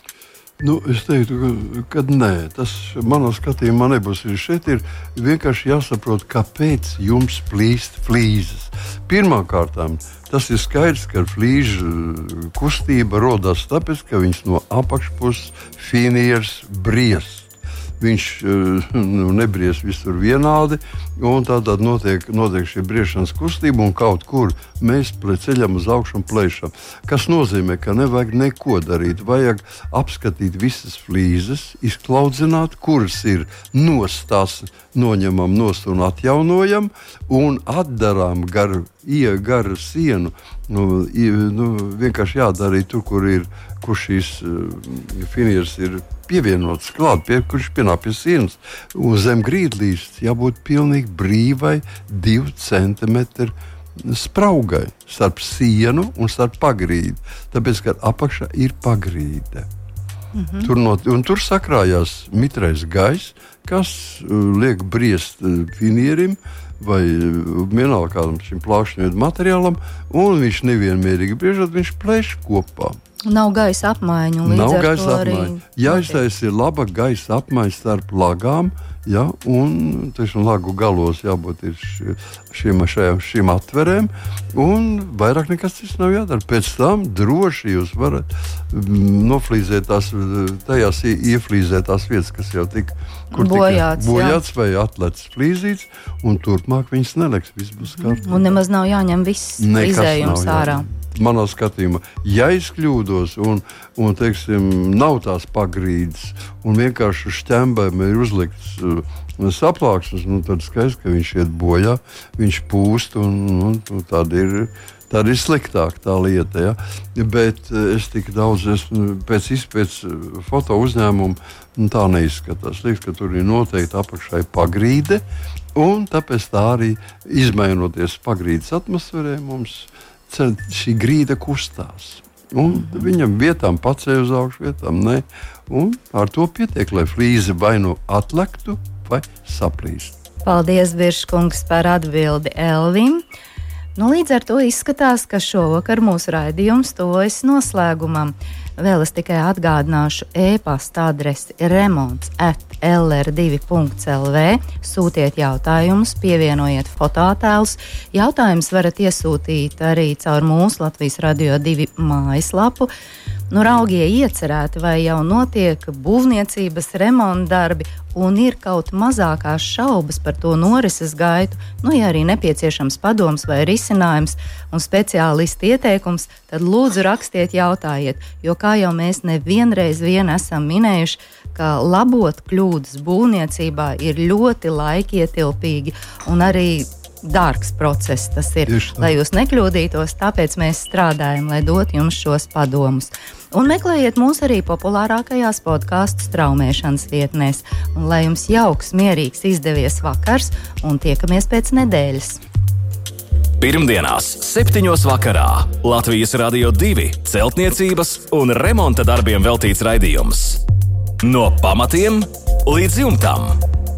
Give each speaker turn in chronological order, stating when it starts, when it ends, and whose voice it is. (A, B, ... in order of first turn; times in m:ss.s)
0:00.6-0:59.7 A
1:00.4-1:00.7 B
1:00.6-1:13.0 A
1:13.3-1:16.2 B
1:14.4-1:38.6 A
1:33.3-1:34.4 B
1:37.9-1:40.9 B
1:39.6-2:05.2 A
2:05.8-2:20.2 A
2:12.7-2:13.1 B
2:20.4-2:23.2 B
2:24.0-2:42.9 B
2:43.5-3:22.4 B
3:08.7-3:09.1 A
3:23.6-3:30.6 C
3:31.2-3:33.6 C